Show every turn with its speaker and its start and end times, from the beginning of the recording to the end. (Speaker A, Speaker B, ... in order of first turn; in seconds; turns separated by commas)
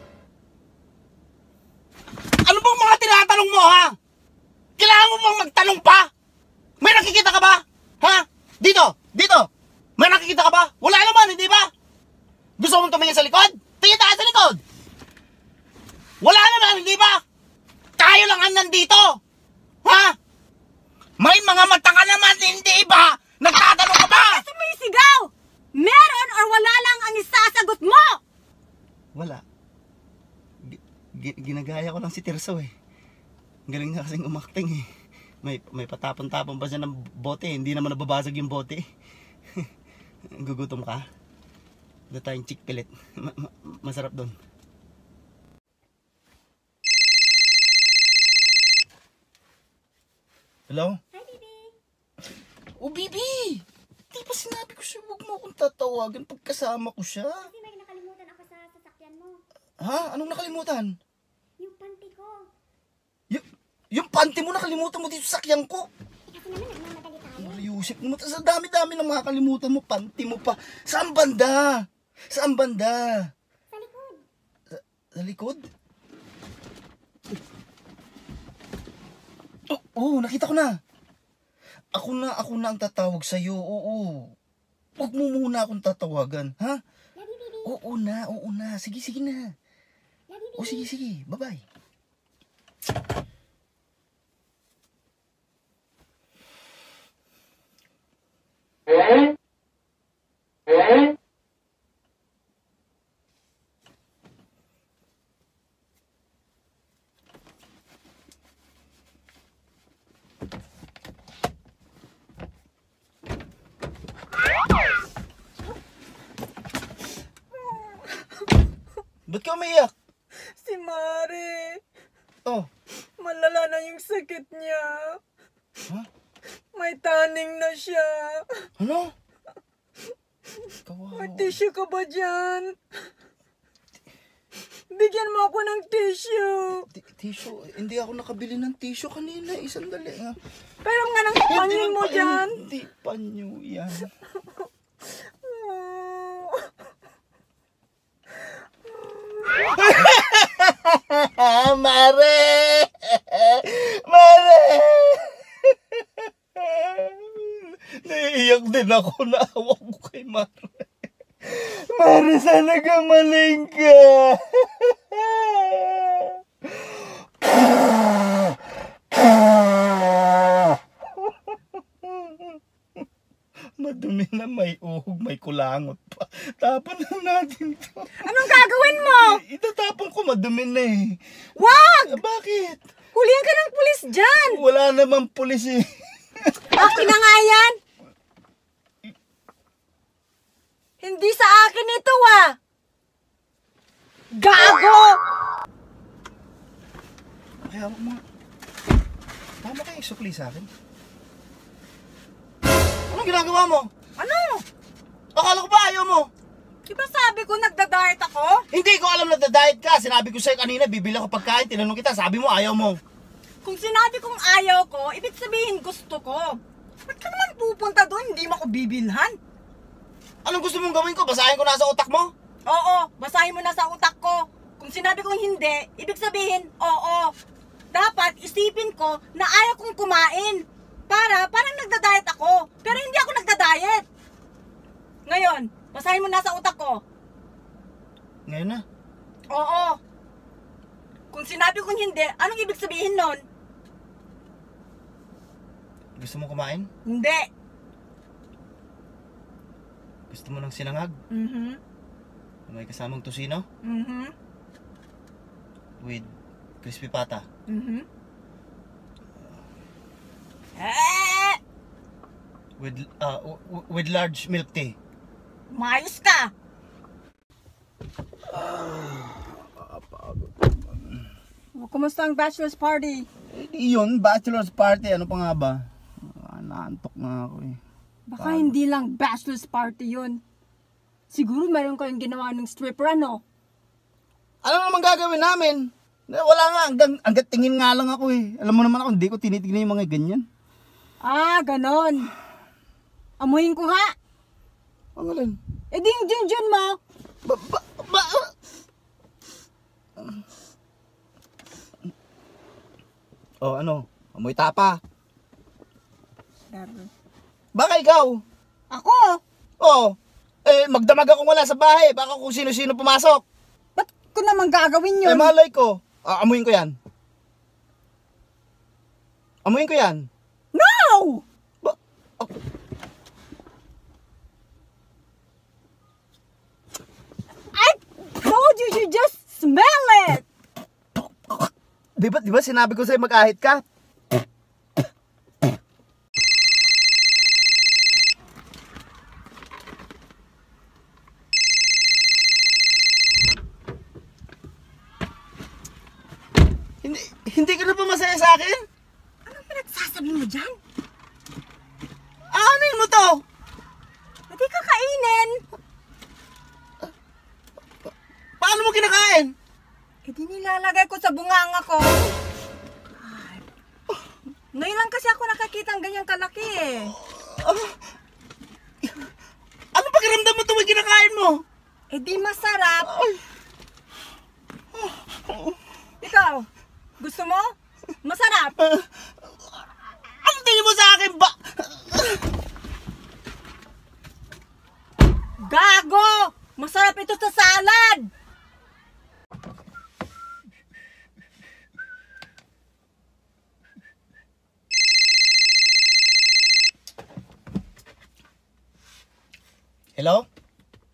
Speaker A: 2.5-4.0, Speaker A: 4.8-6.1, Speaker A: 6.8-11.7, Speaker A: 12.6-14.6, Speaker A: 16.2-17.2, Speaker A: 18.0-19.2, Speaker A: 19.9-20.1, Speaker A: 21.2-24.4, Speaker B: 24.2-28.2, Speaker A: 29.1-29.4, Speaker A: 30.6-32.7, Speaker A: 33.7-34.9, Speaker A: 35.4-38.8, Speaker A: 40.4-41.1, Speaker A: 42.1-44.4, Speaker A: 50.7-51.0, Speaker C: 51.1-51.7, Speaker A: 52.8-57.5, Speaker C: 57.4-59.4, Speaker A: 59.8-61.0, Speaker C: 61.6-62.5, Speaker A: 63.3-65.9, Speaker C: 66.3-67.6, Speaker A: 67.4-73.3, Speaker C: 73.7-74.2, Speaker A: 74.7-75.7, Speaker A: 79.7-80.8, Speaker A: 82.0-84.3, Speaker A: 85.0-86.8, Speaker C: 87.2-87.7, Speaker A: 87.7-89.5, Speaker C: 90.3-90.9, Speaker A: 90.6-91.6, Speaker B: 117.6-118.1, Speaker A: 119.3-119.9, Speaker B: 120.6-121.8, Speaker B: 123.2-125.2, Speaker B: 126.7-128.7, Speaker A: 128.8-129.1, Speaker A: 130.9-131.6, Speaker B: 131.1-132.8, Speaker B: 134.9-136.9, Speaker A: 136.9-140.4, Speaker B: 140.8-142.6, Speaker A: 141.5-144.1, Speaker B: 145.4-146.7, Speaker A: 149.8-160.8, Speaker A: 161.4-168.2, Speaker A: 172.0-172.6, Speaker A: 173.8-178.1, Speaker B: 178.2-179.4, Speaker A: 179.0-181.2, Speaker B: 181.6-182.2, Speaker A: 182.1-182.8, Speaker B: 183.1-184.6, Speaker A: 184.5-185.9, Speaker A: 186.4-187.0, Speaker B: 186.7-187.8, Speaker B: 191.0-192.6, Speaker B: 194.3-195.2, Speaker A: 197.6-198.2, Speaker A: 199.6-200.7, Speaker A: 203.1-203.9, Speaker B: 204.2-204.6, Speaker A: 205.3-206.3, Speaker B: 206.9-208.6, Speaker A: 208.7-213.0, Speaker B: 213.6-219.4, Speaker A: 220.4-222.3, Speaker B: 222.7-227.3, Speaker B: 227.9-234.1, Speaker B: 235.3-237.0, Speaker A: 238.5-238.8, Speaker B: 239.5-240.0, Speaker B: 241.3-243.4, Speaker A: 246.2-246.9, Speaker B: 247.1-247.5, Speaker A: 250.3-251.2, Speaker B: 251.3-251.8, Speaker A: 252.7-253.7, Speaker B: 253.8-254.3, Speaker A: 256.0-256.3, Speaker A: 256.8-257.4, Speaker B: 257.7-258.1, Speaker B: 260.8-261.6, Speaker A: 262.8-265.0, Speaker B: 265.7-266.5, Speaker A: 268.5-271.2, Speaker B: 271.8-273.3, Speaker A: 273.5-277.8, Speaker B: 278.3-280.4, Speaker A: 278.4-278.7, Speaker B: 281.3-283.4, Speaker A: 284.6-290.4, Speaker B: 291.2-292.3, Speaker B: 293.4-294.1, Speaker A: 295.2-295.6, Speaker B: 295.9-297.0, Speaker A: 297.4-298.5, Speaker A: 303.6-305.0, Speaker B: 306.7-307.1, Speaker A: 307.8-308.4, Speaker B: 308.9-309.4, Speaker A: 309.8-310.1, Speaker A: 310.7-313.4, Speaker B: 314.0-315.5, Speaker A: 315.2-316.9, Speaker A: 319.6-320.3, Speaker B: 320.7-321.4, Speaker A: 321.8-322.5, Speaker B: 327.7-330.4, Speaker A: 331.1-333.8, Speaker A: 347.0-348.9, Speaker B: 349.5-350.8, Speaker A: 352.5-353.4, Speaker B: 354.5-355.6, Speaker A: 358.6-359.5, Speaker B: 360.3-362.4, Speaker B: 363.2-363.6, Speaker B: 364.7-367.2, Speaker A: 367.3-368.0, Speaker A: 369.9-371.6, Speaker B: 372.1-373.1, Speaker A: 373.1-373.4, Speaker A: 374.9-375.8, Speaker B: 376.2-376.7, Speaker B: 377.2-377.7, Speaker B: 378.2-378.8, Speaker A: 378.8-379.1, Speaker A: 380.4-382.4, Speaker B: 385.6-388.3, Speaker A: 400.2-400.5